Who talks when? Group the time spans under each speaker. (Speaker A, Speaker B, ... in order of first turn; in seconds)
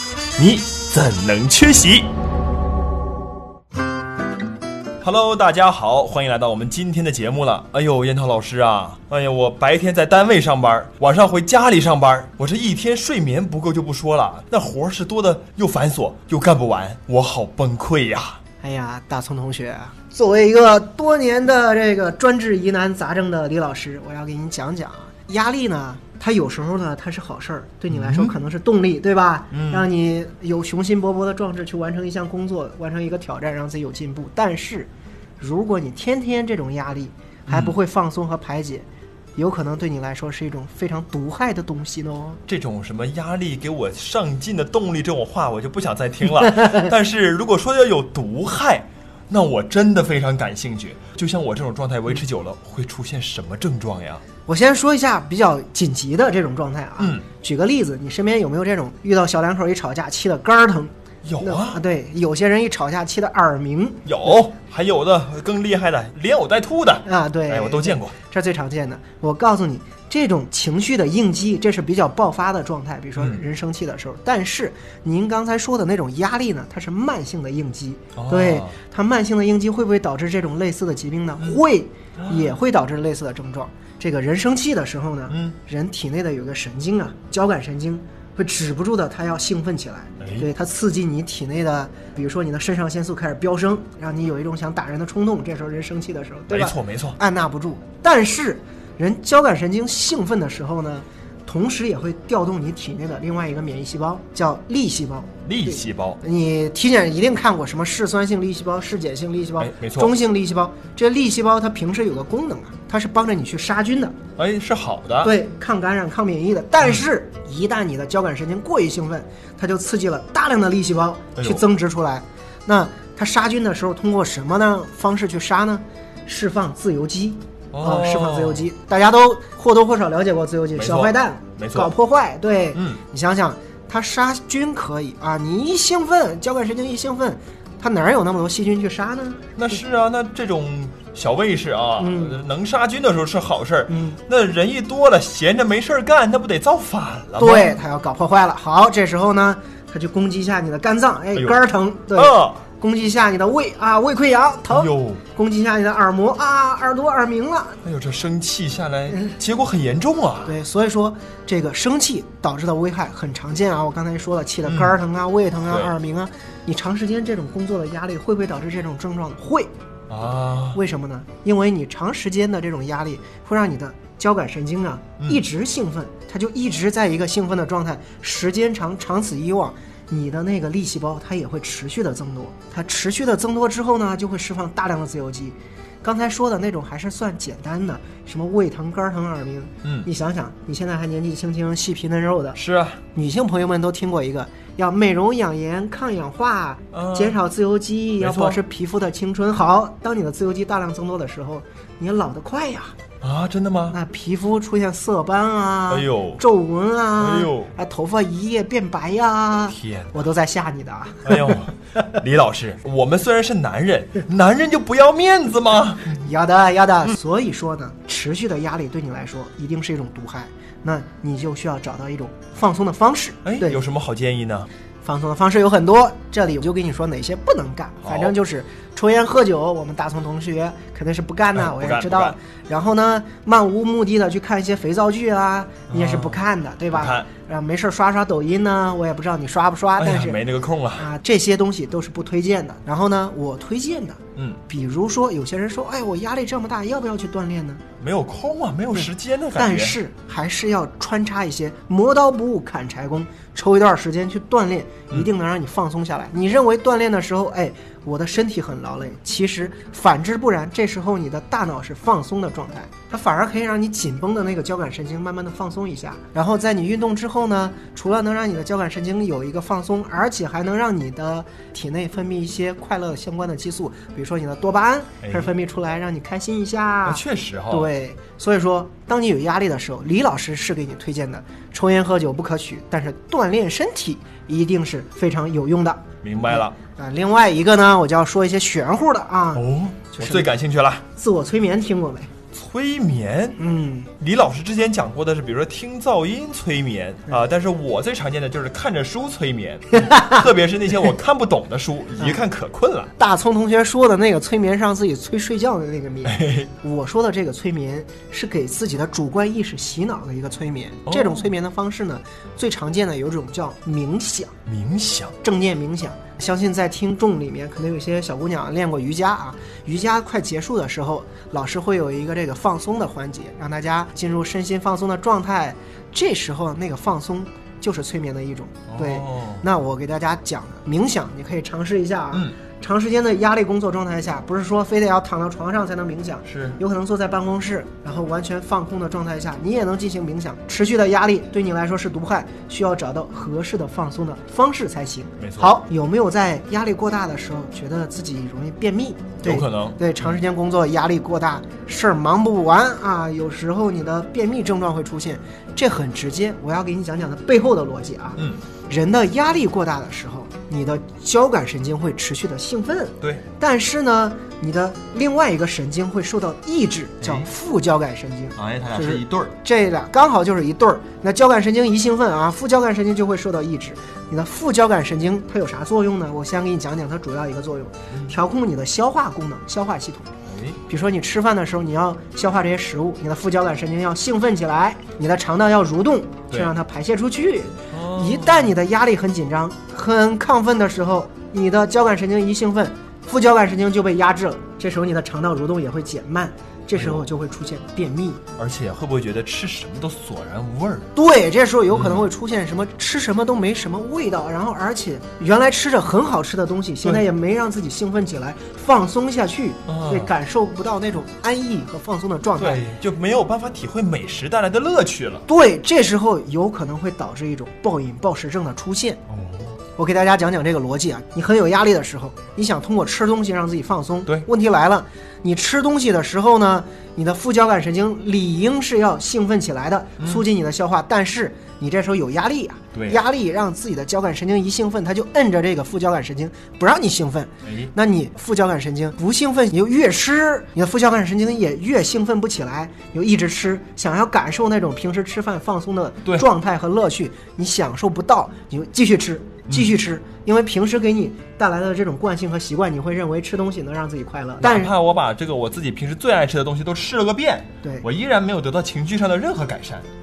Speaker A: 0.4-2.1, 5.0-18.4, 27.9-28.4, 29.5-29.9, 37.5-37.7, 42.5-54.2, 57.0-57.2, 61.2-61.8, 64.0-68.2, 73.2-73.4, 78.2-78.7, 82.2-82.5, 85.3-85.6, 90.2-90.5, 96.5-97.2, 105.5-106.2, 109.6-110.1, 114.4-115.3, 121.4-121.7, 127.7-128.7, 130.8-131.9, 132.7-133.0, 139.6-147.8, 152.1-152.6, 154.7-155.2, 157.8-160.6, 164.7-164.9, 170.1-170.8, 189.8-190.1, 192.6-193.0, 196.9-197.4, 198.2-198.6, 203.2-204.0, 205.9-206.4, 207.2-207.7, 209.7-210.1, 211.2-216.1, 223.4-224.7, 228.0-228.3, 231.6-232.4, 235.9-236.4, 236.9-237.3, 240.0-241.1, 248.0-250.0, 275.2-275.5, 277.1-277.9, 286.2-286.8, 289.6-291.0, 292.5-293.6, 294.2-303.1, 306.3-306.7, 311.1-311.5, 314.7-315.4, 328.9-329.6, 332.3-332.6, 336.5-336.8, 345.4-345.8, 349.4-350.4, 367.2-367.5, 368.6-369.5, 380.5-380.8, 387.9-388.7, 396.9-397.3, 398.6-401.1, 401.9-402.2, 409.9-410.3, 412.6-415.5, 419.3-419.8, 432.9-433.2, 437.6-437.9, 449.7-449.9, 454.6-460.1
Speaker B: 18.6-34.9, 35.4-42.4, 54.5-64.0, 67.0-114.2, 115.2-139.5, 142.0-142.4, 143.9-144.2, 147.4-157.8, 160.4-169.7, 170.7-192.6, 193.2-203.0, 203.9-211.6, 216.1-223.8, 225.0-240.4, 241.0-247.8, 248.9-290.5, 291.2-292.3, 293.6-294.1, 299.9-300.4, 303.2-314.5, 315.4-380.3, 380.9-398.4, 401.1-412.8, 415.5-419.2, 420.0-454.9